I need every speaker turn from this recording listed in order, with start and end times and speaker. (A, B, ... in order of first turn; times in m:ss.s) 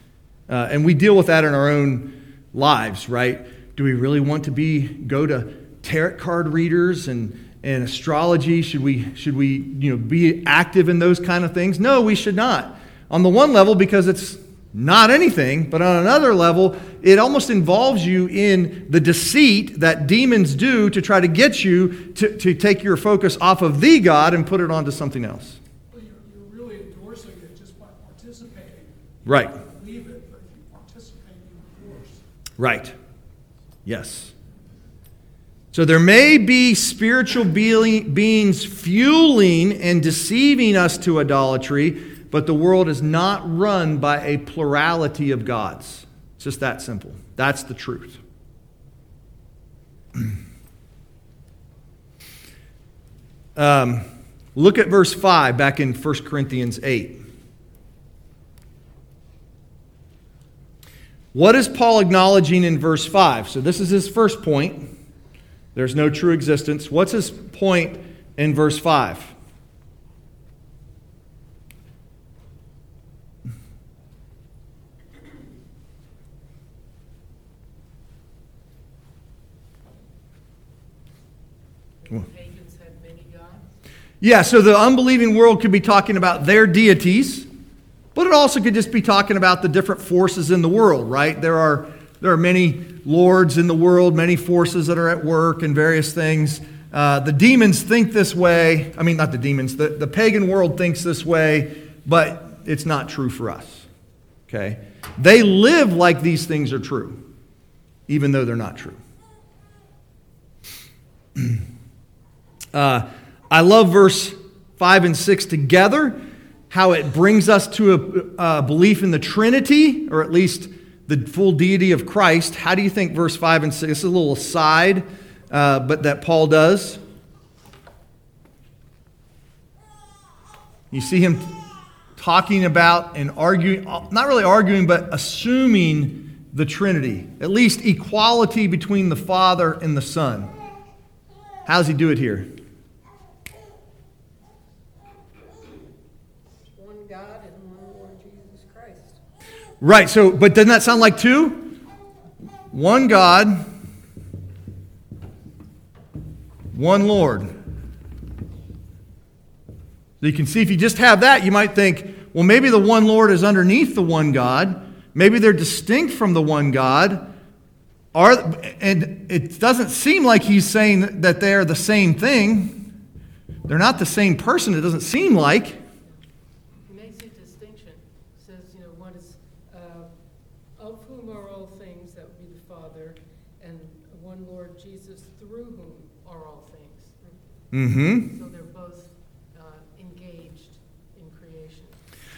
0:00.5-0:25.6 A
0:25.9-0:32.2 B
0:29.2-0:29.6 A
0:32.6-0:32.9 A
0:33.8-0:34.3 A
0:35.7-0:48.2 A
0:53.6-0:57.2 A
1:01.3-1:04.9 A
1:05.7-1:09.3 A
1:22.0-1:23.6 C
1:24.2-1:27.5 A
1:28.1-1:43.9 A
1:44.5-1:47.2 A
1:48.1-1:49.0 A
1:52.7-2:07.0 A
2:10.9-2:11.6 A
2:12.2-2:20.5 A
2:21.6-2:22.5 A
2:26.7-2:29.2 D
2:29.8-2:31.7 A
2:32.7-2:33.6 A
2:36.7-2:37.5 A
2:40.2-2:47.3 A
2:48.1-2:52.9 A
2:53.7-2:55.8 A
2:56.0-3:12.0 C
3:07.7-3:08.3 A